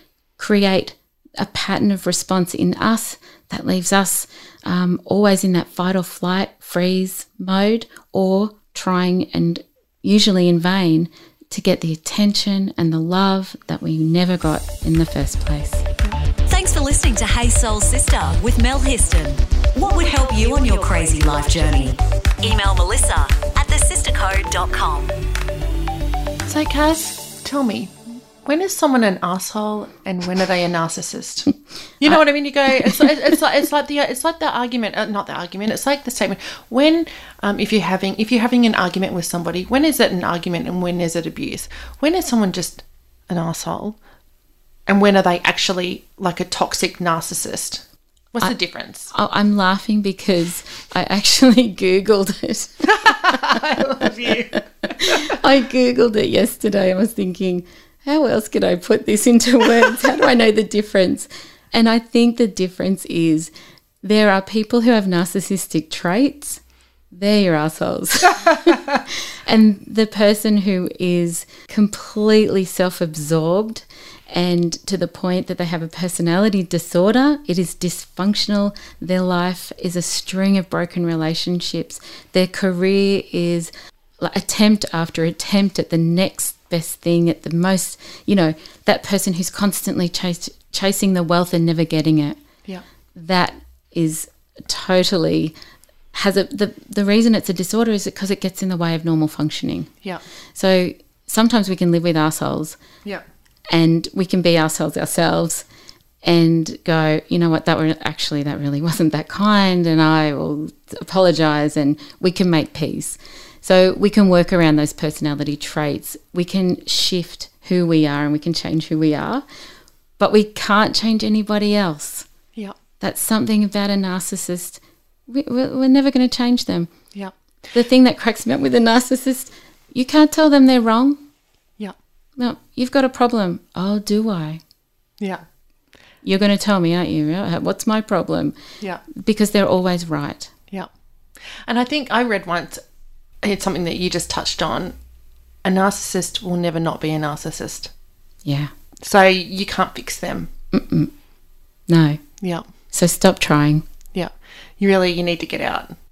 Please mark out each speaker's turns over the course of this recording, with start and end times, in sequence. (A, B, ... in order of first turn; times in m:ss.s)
0:00.4-0:15.8 A
0:16.5-0:25.1 B
0:26.4-0:44.0 C
0:32.8-0:33.1 A
0:44.9-0:49.1 C
0:49.1-1:32.4 A
0:52.8-0:55.4 C
1:33.1-1:35.5 A
1:36.1-1:39.9 A
1:40.5-1:42.8 A
1:43.7-1:45.6 A
1:46.2-1:59.4 A
2:00.2-2:02.3 A
2:03.0-2:06.9 A
2:07.7-2:11.2 A
2:12.4-2:14.6 A
2:16.2-2:18.6 A
2:19.1-2:20.5 A
2:21.6-2:22.8 C
2:23.4-2:25.0 C
2:25.6-2:27.9 C
2:28.4-2:28.7 A
2:29.0-2:30.5 C
2:30.7-2:31.1 A
2:31.9-2:32.2 A
2:32.9-2:33.8 A
2:34.1-2:35.9 C